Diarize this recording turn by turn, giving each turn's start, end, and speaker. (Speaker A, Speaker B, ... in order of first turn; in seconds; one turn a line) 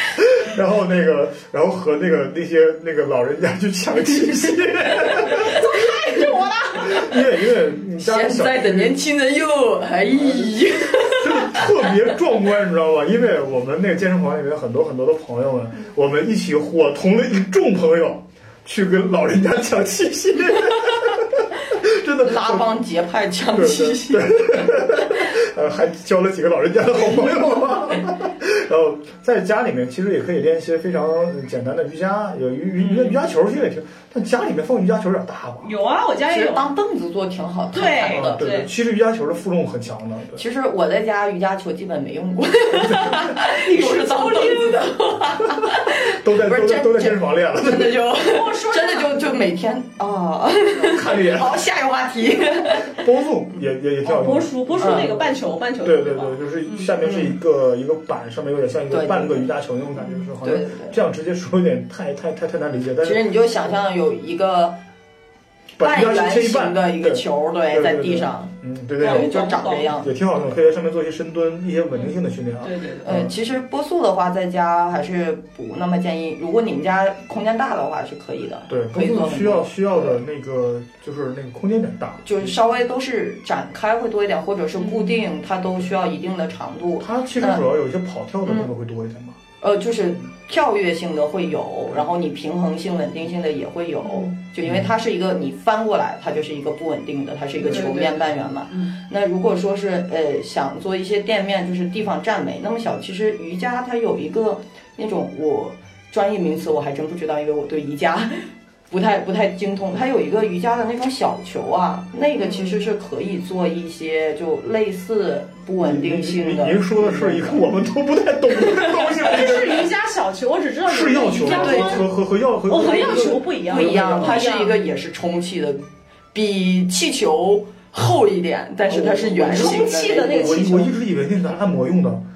Speaker A: 0.2-5.7
Speaker B: 5.2-7.1
Speaker A: 6.8-9.0
Speaker C: 8.0-11.7
Speaker A: 11.0-22.8
Speaker C: 22.2-24.5
Speaker A: 23.5-35.7
Speaker B: 32.8-33.2
Speaker B: 35.6-36.7
Speaker C: 36.3-38.4
Speaker B: 37.7-38.7
Speaker A: 38.1-40.4
Speaker C: 40.4-53.0
Speaker A: 42.8-43.3
Speaker B: 43.4-45.0
Speaker A: 46.0-48.1
Speaker B: 48.2-49.4
Speaker A: 50.8-51.7
Speaker A: 52.7-63.4
Speaker B: 54.0-56.9
Speaker C: 54.8-55.1
Speaker C: 57.0-57.4
Speaker C: 58.9-59.5
Speaker C: 60.4-61.0
Speaker C: 63.0-64.8
Speaker A: 65.8-73.3
Speaker C: 65.8-70.1
Speaker B: 69.0-69.9
Speaker B: 72.6-73.1
Speaker C: 73.0-80.2
Speaker A: 78.7-82.5
Speaker C: 82.2-87.7
Speaker B: 84.8-85.2
Speaker A: 87.0-89.4
Speaker C: 88.5-88.7
Speaker C: 89.6-117.7
Speaker B: 94.0-94.3
Speaker A: 94.6-94.9
Speaker B: 97.6-98.9
Speaker B: 112.4-112.8
Speaker A: 115.8-119.9
Speaker B: 118.7-122.1
Speaker A: 120.9-124.4
Speaker C: 121.4-122.0
Speaker B: 122.7-124.8
Speaker C: 123.7-130.7
Speaker A: 128.9-132.2
Speaker B: 129.3-130.9